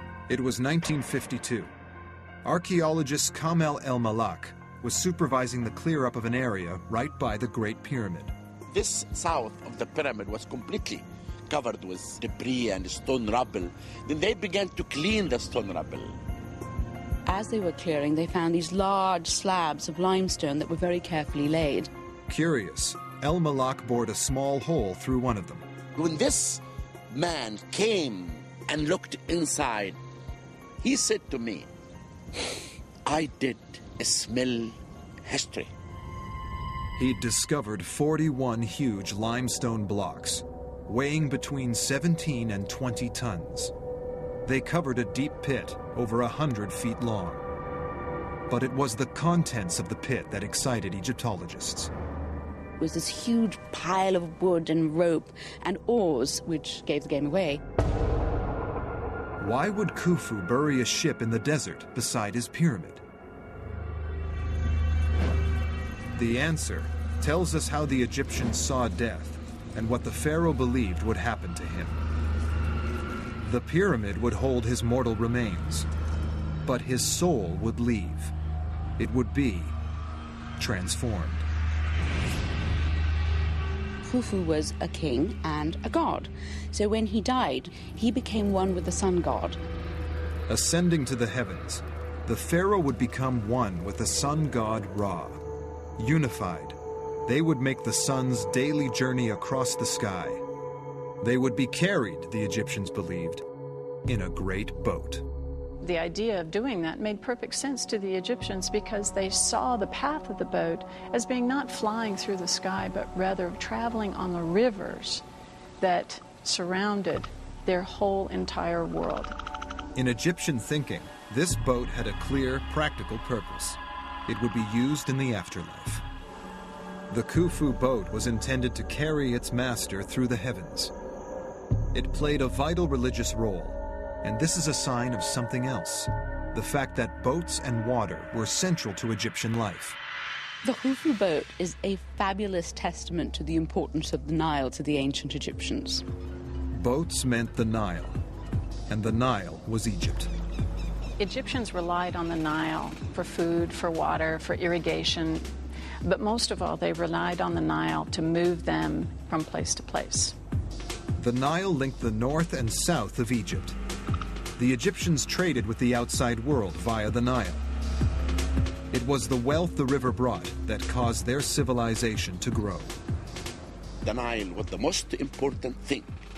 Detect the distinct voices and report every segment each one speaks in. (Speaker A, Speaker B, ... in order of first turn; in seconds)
Speaker A: 0.3-1.7, 2.4-8.3, 22.3-25.6, 37.0-43.7, 44.4-47.4, 48.5-51.9, 59.4-63.0, 66.1-72.0, 73.4-75.9, 76.6-78.3, 79.0-79.8, 80.6-81.5, 90.5-95.4, 96.0-100.4, 101.2-103.4, 104.1-105.2, 119.9-126.0, 127.1-130.9, 131.9-140.0, 146.7-148.2, 148.9-150.3, 161.2-163.8, 164.6-167.6, 168.9-172.9
Speaker B: 8.7-16.2, 25.9-30.0, 30.8-31.7, 33.0-35.7, 174.0-176.1
Speaker C: 17.2-21.9, 52.8-57.6, 84.0-89.6, 140.6-146.0
Speaker D: 105.8-115.2, 115.8-119.3, 151.2-155.5, 156.0-160.3